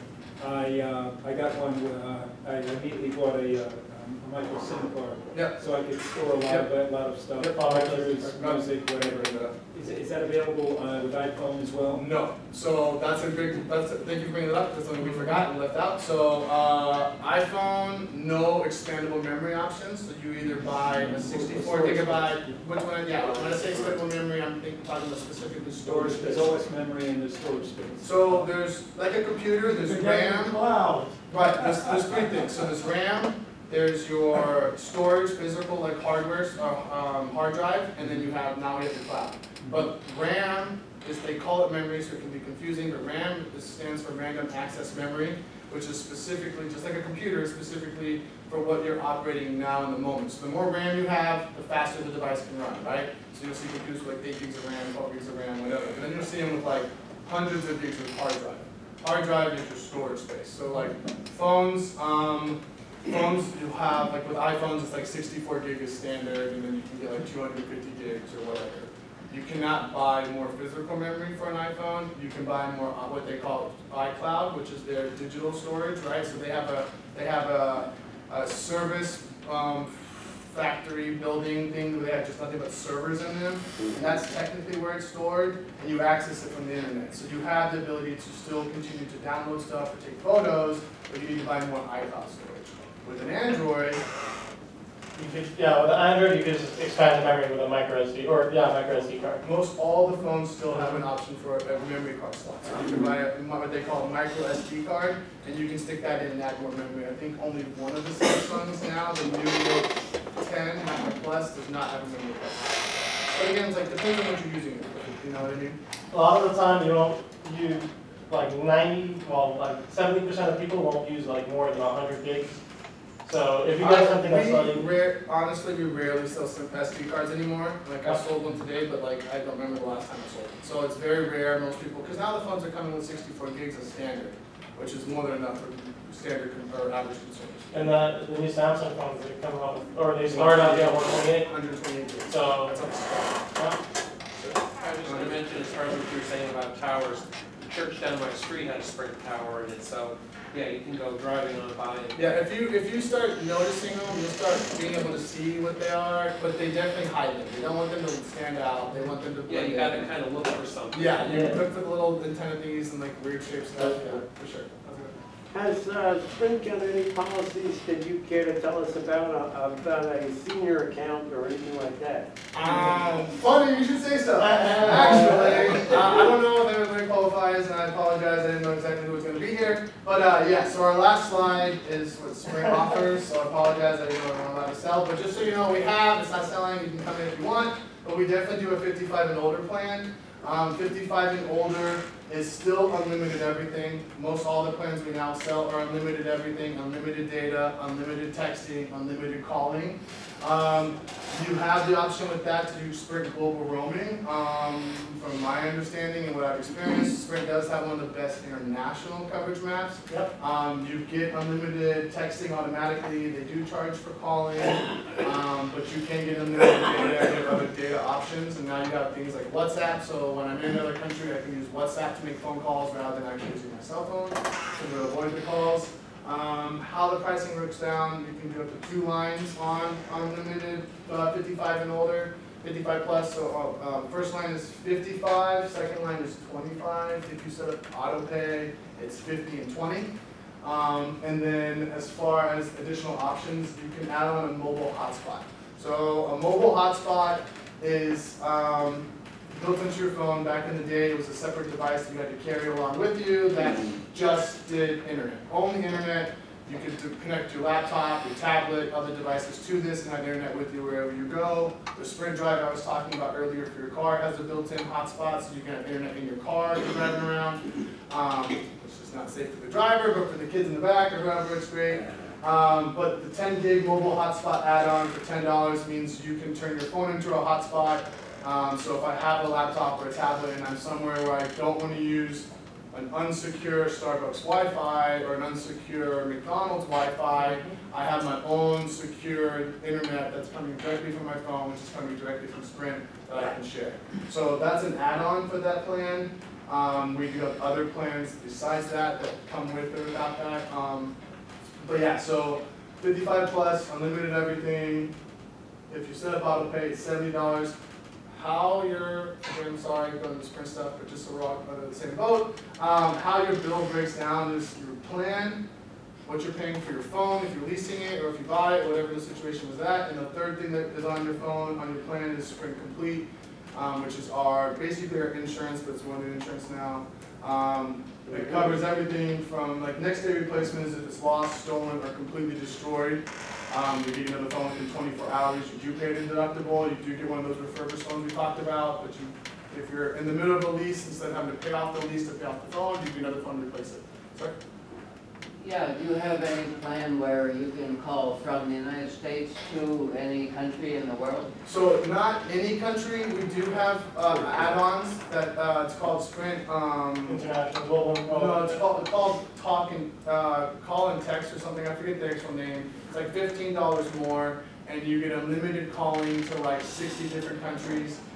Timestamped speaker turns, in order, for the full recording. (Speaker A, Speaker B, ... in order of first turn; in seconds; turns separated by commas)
Speaker A: 0.4-12.1, Speaker B: 5.3-5.7, Speaker B: 6.4-6.7, Speaker B: 7.3-9.5, Speaker C: 7.5-8.4, Speaker B: 11.9-26.6, Speaker D: 23.2-23.8, Speaker A: 25.8-28.5, Speaker B: 28.0-30.6, Speaker E: 29.6-32.0, Speaker B: 31.3-94.0, Speaker C: 95.2-99.4, Speaker B: 99.4-115.8, Speaker C: 116.1-122.6, Speaker C: 123.2-124.8, Speaker B: 123.8-137.9, Speaker C: 137.7-141.5, Speaker B: 140.2-143.5, Speaker C: 142.3-142.8, Speaker B: 144.4-145.4, Speaker F: 144.8-152.3, Speaker B: 152.1-160.1, Speaker F: 159.4-161.6, Speaker B: 160.9-164.7, Speaker C: 161.2-161.5, Speaker F: 164.8-165.1, Speaker D: 165.5-172.3, Speaker B: 172.5-301.1, Speaker C: 174.5-175.3, Speaker C: 287.4-287.8, Speaker B: 301.8-305.1, Speaker B: 305.9-307.8, Speaker B: 308.3-315.6, Speaker B: 316.2-344.6, Speaker G: 345.6-351.5, Speaker B: 351.6-357.4, Speaker C: 357.3-358.8, Speaker B: 358.2-368.2